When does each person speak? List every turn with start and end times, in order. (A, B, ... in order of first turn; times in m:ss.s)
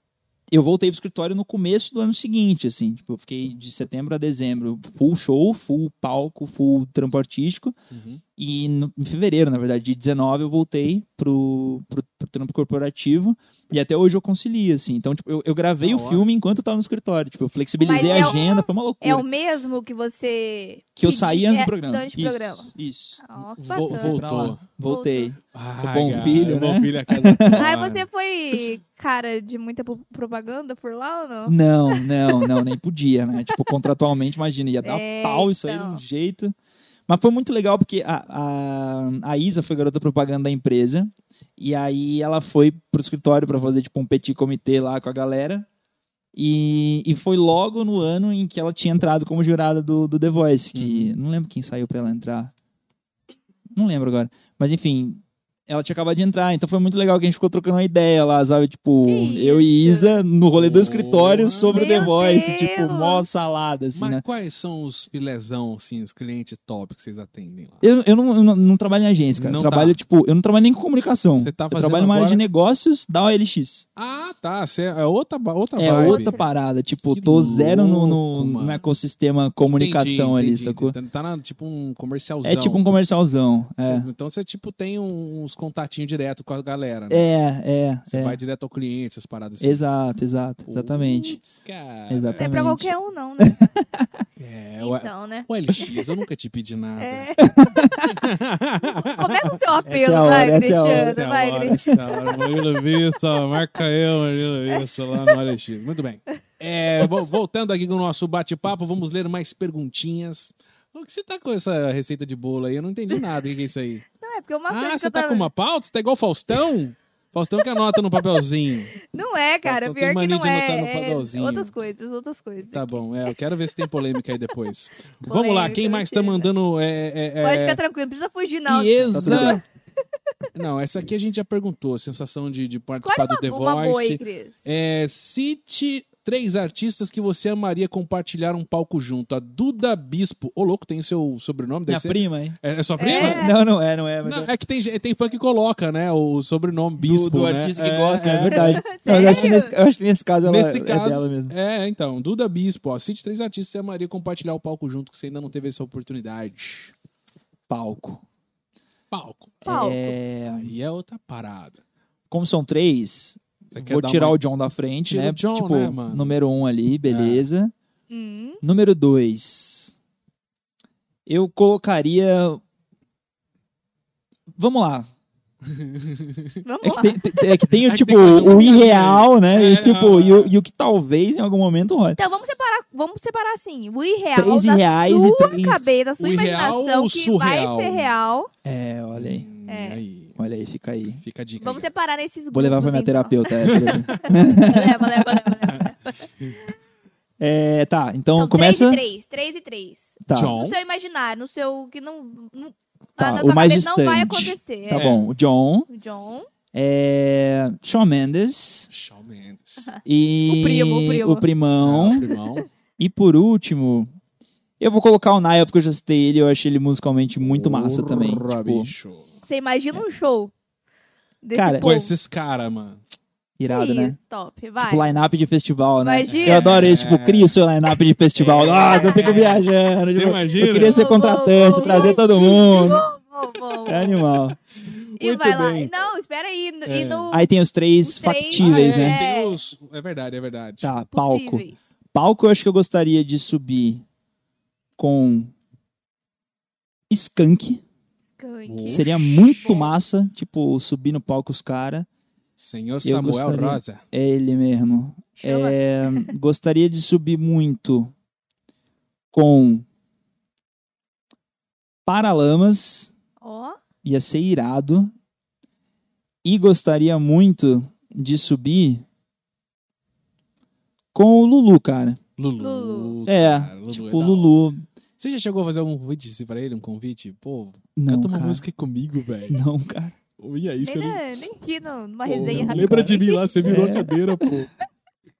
0:00.5-0:07.8 A
0:07.9-0:08.2 B
0:08.4-0:19.2 A
0:15.8-0:16.3 B
0:17.8-0:22.7 C
0:17.9-0:18.2 B
0:21.0-0:27.7 A
0:23.2-0:25.4 C
0:23.6-0:24.6 B
0:25.5-0:28.0 B
0:27.5-0:32.6 C
0:31.4-0:36.5 A
0:33.5-0:33.8 C
0:34.8-0:36.0 C
0:37.1-0:45.7 A
0:46.3-0:52.5 A
0:50.7-0:51.1 B
0:53.7-1:04.2 A
0:59.0-1:00.2 C
1:00.5-1:02.0 B
1:01.7-1:03.2 C
1:03.9-1:07.8 B
1:07.8-1:13.8 A
1:09.4-1:10.0 B
1:11.4-1:12.4 B
1:14.0-1:16.4 B
1:15.8-1:21.0 A
1:16.0-1:16.5 C
1:17.0-1:18.8 B
1:19.7-1:22.9 B
1:22.4-1:24.1 A
1:23.8-1:27.3 B
1:27.1-1:28.4 A
1:28.1-1:29.8 B
1:29.6-1:31.4 A
1:30.6-1:32.5 B
1:32.1-1:34.1 A
1:32.4-1:33.7 C
1:34.4-1:37.3 B
1:34.8-1:35.9 C
1:37.0-1:38.2 C
1:37.4-1:38.0 A
1:38.1-1:39.6 B
1:38.8-1:42.4 C
1:39.8-1:42.0 A
1:40.8-1:54.0 B
1:44.7-1:45.3 C
1:54.2-1:55.5 C
1:54.7-1:59.0 B
1:57.7-1:58.2 C
1:59.0-2:03.3 C
1:59.6-2:01.7 B
2:02.7-2:07.8 B
2:05.2-2:06.5 C
2:07.4-2:09.6 C
2:08.7-2:09.6 B
2:09.1-2:09.6 A
2:10.5-2:23.5 B
2:13.0-2:14.6 C
2:21.9-2:22.6 A
2:23.0-2:23.6 C
2:23.1-2:24.5 A
2:24.2-2:29.5 B
2:27.0-2:31.5 A
2:28.5-2:29.8 C
2:30.4-2:36.9 B
2:37.7-2:38.2 A
2:39.1-2:39.6 B
2:39.6-2:40.1 C
2:39.6-2:40.7 A
2:40.5-2:41.8 B
2:42.3-2:47.7 A
2:43.7-2:44.4 B
2:45.0-2:46.4 B
2:47.1-2:47.4 B
2:48.1-2:48.6 C
2:48.6-2:49.9 A
2:51.2-2:52.6 A
2:54.5-2:55.1 A
2:55.6-2:56.6 B
2:56.6-2:57.2 C
2:56.8-3:02.2 A
2:57.7-3:00.5 B
3:02.2-3:08.5 C
3:04.3-3:05.9 A
3:06.2-3:08.1 B
3:08.6-3:09.5 A
3:09.1-3:10.4 B
3:09.7-3:10.0 C
3:10.4-3:11.2 A
3:11.2-3:11.9 B
3:11.6-3:16.5 C
3:12.5-3:15.3 A
3:13.6-3:14.3 B
3:17.4-3:19.0 A
3:18.4-3:25.1 C
3:20.2-3:20.6 A
3:20.3-3:20.8 B
3:23.2-3:25.9 A
3:24.9-3:25.3 B
3:25.9-3:26.5 C
3:26.7-3:28.9 A
3:28.9-3:29.9 B
3:29.8-3:31.5 C
3:30.0-3:32.2 A
3:31.8-3:32.7 B
3:32.3-3:32.6 C
3:33.0-3:34.1 A
3:34.8-3:38.9 A
3:37.4-3:39.3 B
3:39.4-3:40.5 C
3:41.4-3:42.1 C
3:41.5-3:41.9 A
3:41.8-3:43.0 B
3:43.6-3:44.2 A
3:43.7-3:45.2 C
3:44.8-3:53.0 A
3:46.0-3:46.8 C
3:46.3-3:47.6 B
3:48.3-3:51.2 B
3:48.8-3:49.5 C
3:50.7-3:54.3 C
3:51.7-3:53.0 B
3:53.8-3:54.6 A
3:54.8-3:56.0 B
3:55.2-3:57.5 C
3:56.8-3:57.3 B
3:57.3-3:59.2 A
3:58.0-3:59.6 C
3:58.5-4:00.9 B
4:00.8-4:04.0 A
4:01.1-4:01.8 C
4:05.0-4:05.5 A
4:07.1-4:07.8 A
4:08.4-4:09.9 C
4:08.6-4:09.4 B
4:08.9-4:12.1 A
4:12.6-4:14.0 B
4:13.0-4:18.1 A
4:15.4-4:16.3 C
4:19.3-4:19.8 A
4:22.0-4:23.1 A
4:23.4-4:23.8 C
4:24.0-4:25.1 A
4:26.4-4:29.0 A
4:31.1-4:32.2 A
4:32.4-4:34.5 B
4:32.6-4:33.2 C
4:33.3-4:34.8 A
4:35.2-4:39.6 B
4:38.0-4:38.6 A
4:39.5-4:40.1 A
4:40.4-4:41.2 B
4:40.8-4:43.6 C
4:42.2-4:44.7 B
4:42.4-4:44.6 A